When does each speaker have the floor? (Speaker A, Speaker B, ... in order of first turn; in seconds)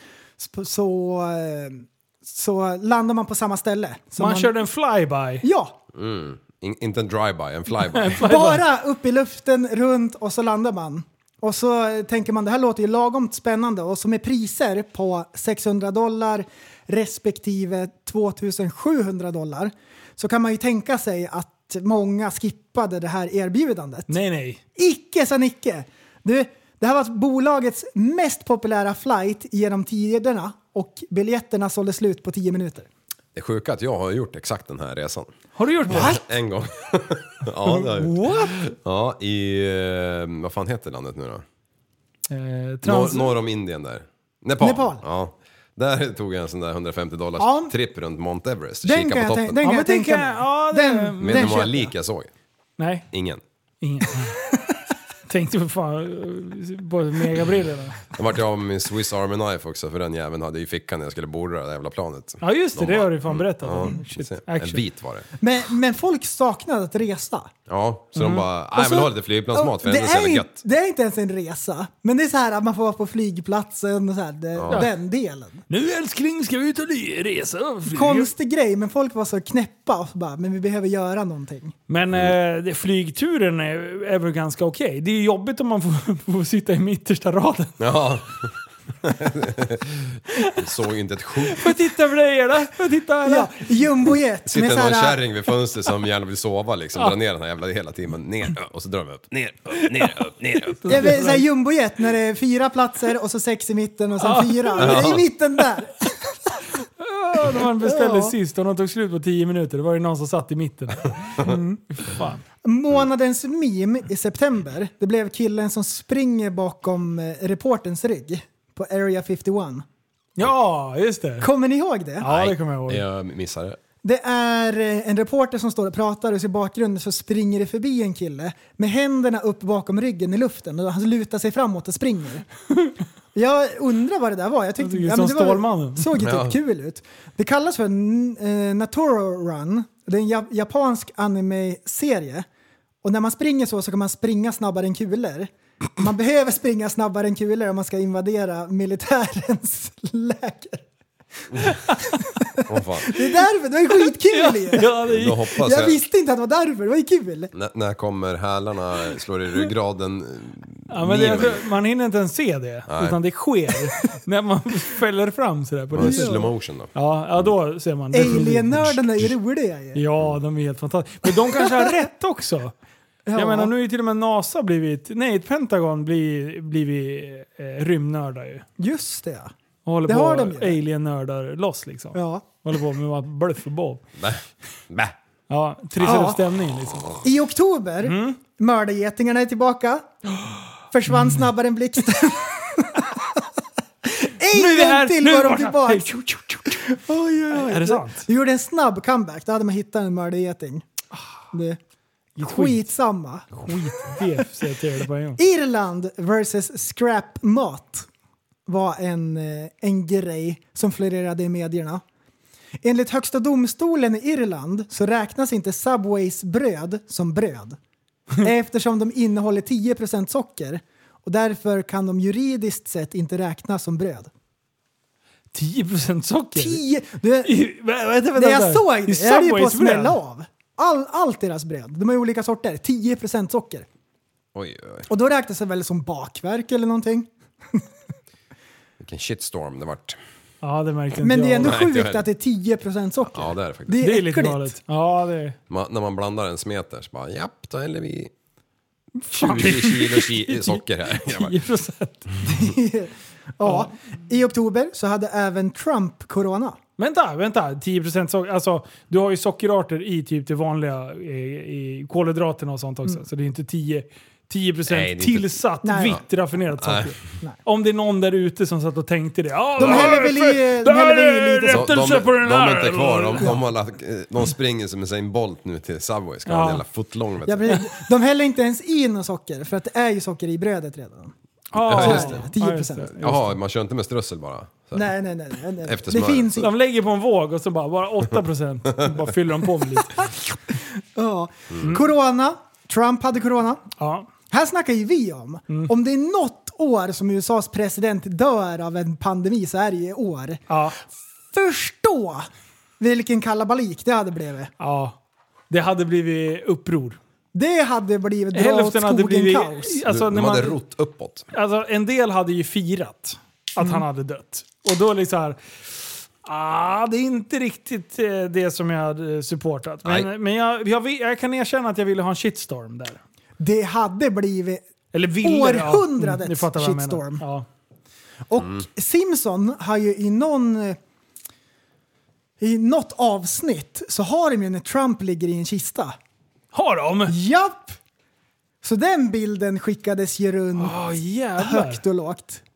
Speaker A: 0.4-4.6, 5.4-5.8, 8.2-24.1, 24.8-32.9, 35.9-36.2, 44.6-45.0, 47.4-47.7, 48.8-51.9, 65.4-67.5, 68.8-75.6, 77.9-81.8, 93.2-95.2, 100.9-106.1, 107.5-108.3, 112.6-119.8, 121.4-122.3, 124.0-132.5, 133.3-142.5, 143.0-150.8, 152.0-154.9, 155.6-157.5, 166.0-166.5, 168.1-170.0, 173.3-173.7, 178.8-179.5, 180.1-180.8, 182.1-182.5, 186.0-186.4, 187.2-190.2, 190.9-193.4, 194.1-200.8, 201.5-201.8, 202.4-204.2, 205.4-208.1, 208.7-212.0, 212.8-217.8, 218.4-224.3, 226.6-227.6, 228.3-233.9, 235.1-237.8, 241.2-244.7, 252.4-256.8, 265.8-266.2, 269.8-272.0, 277.4-281.3, 281.9-283.4, 284.9-286.7, 290.2-293.9, 294.5-300.6, 301.5-304.7, 307.5-310.0, 323.6-324.9, 325.4-327.4, 328.5-331.0, 332.6-336.2, 337.3-338.0, 338.8-341.0, 341.6-342.6
Speaker B: 4.2-5.5, 7.9-8.6, 24.1-24.6, 35.6-36.2, 37.6-38.5, 42.3-43.3, 49.6-51.6, 52.8-53.1, 53.8-54.4, 55.3-58.1, 62.4-64.8, 68.2-68.5, 75.7-78.3, 81.9-87.8, 91.5-93.7, 100.7-101.5, 104.2-105.2, 107.0-112.4, 120.4-121.5, 122.2-123.0, 134.8-136.1, 151.7-152.0, 154.3-155.5, 160.9-166.4, 166.9-169.0, 169.9-172.7, 173.4-178.7, 179.9-184.0, 185.5-187.2, 188.0-188.4, 194.5-196.8, 197.5-198.2, 202.4-202.8, 203.5-205.4, 225.5-226.8, 227.4-230.2, 240.6-241.8, 244.0-245.6, 249.2-252.3, 253.6-253.9, 257.0-273.6, 276.5-276.8, 281.7-283.5, 286.6-290.3, 294.0-294.3, 300.7-301.0, 304.8-305.2, 305.7-307.2, 308.5-310.8, 311.5-315.6, 316.4-323.2, 325.1-327.7, 336.7-337.4, 340.8-342.0
Speaker C: 5.9-8.4, 33.4-35.3, 35.9-41.4, 42.8-49.6, 51.2-52.3, 53.1-53.4, 58.1-65.3, 67.7-70.6, 74.5-74.9, 87.8-91.8, 94.5-101.1, 104.8-105.2, 122.2-123.8, 136.2-136.6, 152.7-153.2, 155.0-156.0, 157.5-161.6, 162.9-163.2, 165.9-167.5, 184.2-185.2, 234.6-235.1, 239.0-240.2, 241.6-242.3, 243.2-244.1, 245.7-248.3, 249.3-251.6, 264.9-266.2, 266.8-267.2, 269.8-270.2, 271.7-277.7, 281.8-282.5, 283.2-285.1, 285.8-286.7, 310.1-311.5, 320.1-320.3, 328.6-328.9